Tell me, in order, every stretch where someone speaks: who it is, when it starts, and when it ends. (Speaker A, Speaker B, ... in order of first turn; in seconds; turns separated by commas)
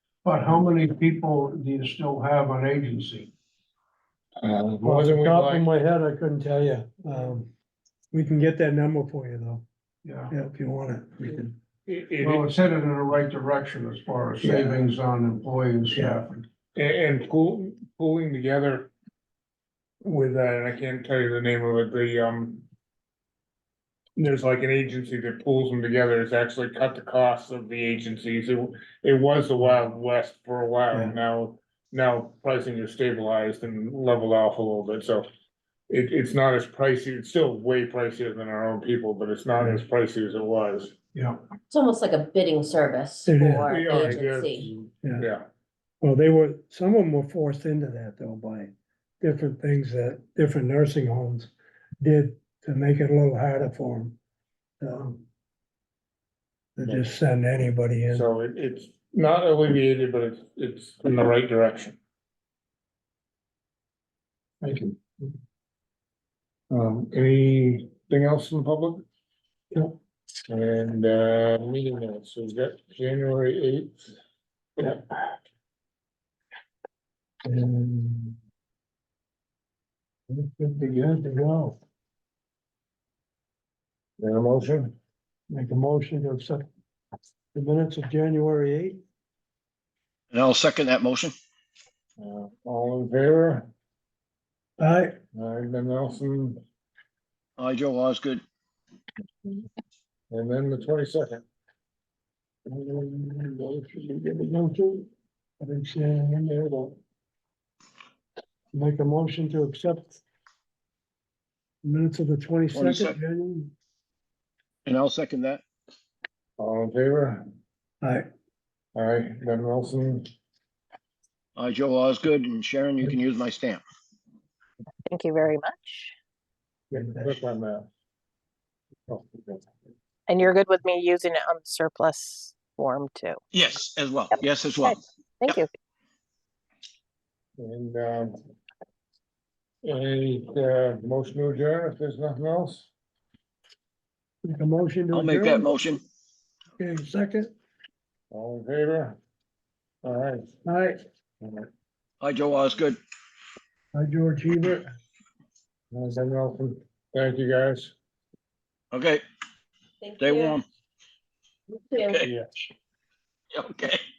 Speaker A: 0.2-3.3, Speaker B: 4.4-5.7, Speaker C: 4.8-7.5, Speaker C: 8.1-9.7, Speaker A: 10.1-10.3, Speaker C: 10.3-11.6, Speaker B: 11.9-12.5, Speaker A: 12.2-16.5, Speaker C: 14.4-14.8, Speaker C: 15.9-16.2, Speaker B: 16.8-18.9, Speaker B: 20.0-22.7, Speaker B: 24.2-35.3, Speaker B: 35.9-41.0, Speaker A: 41.1-41.4, Speaker D: 41.7-44.7, Speaker C: 43.3-44.2, Speaker B: 43.7-45.5, Speaker C: 45.0-45.3, Speaker C: 46.0-54.2, Speaker C: 54.8-55.3, Speaker C: 56.8-58.3, Speaker B: 56.8-57.1, Speaker B: 58.1-62.0, Speaker A: 64.6-65.0, Speaker B: 66.7-69.0, Speaker C: 69.7-70.0, Speaker B: 70.5-74.2, Speaker C: 77.5-78.4, Speaker C: 80.3-81.8, Speaker B: 84.2-84.9, Speaker C: 85.5-86.7, Speaker C: 87.5-89.0, Speaker E: 90.3-91.3, Speaker B: 92.2-93.7, Speaker C: 94.8-95.2, Speaker B: 95.3-96.6, Speaker E: 97.6-98.4, Speaker B: 100.3-101.4, Speaker B: 102.7-105.0, Speaker C: 105.6-107.0, Speaker C: 108.7-110.2, Speaker C: 111.8-113.8, Speaker E: 112.7-113.2, Speaker E: 114.9-115.6, Speaker B: 116.6-117.4, Speaker C: 118.0-118.3, Speaker B: 119.0-120.3, Speaker E: 121.6-123.8, Speaker F: 125.1-126.1, Speaker B: 126.9-127.9, Speaker C: 127.0-127.3, Speaker B: 129.1-129.7, Speaker F: 130.3-133.4, Speaker E: 133.5-135.6, Speaker F: 134.8-135.7, Speaker B: 137.6-138.4, Speaker B: 139.8-142.9, Speaker C: 144.4-145.7, Speaker E: 145.1-146.0, Speaker C: 146.8-147.5, Speaker B: 148.3-149.2, Speaker B: 150.0-150.5, Speaker C: 150.7-151.0, Speaker B: 151.4-151.7, Speaker E: 152.2-153.0, Speaker C: 153.9-154.9, Speaker B: 155.9-157.9, Speaker E: 158.9-159.2, Speaker D: 160.0-160.6, Speaker E: 160.2-160.7, Speaker D: 161.7-162.2, Speaker B: 162.2-162.5, Speaker E: 163.6-164.0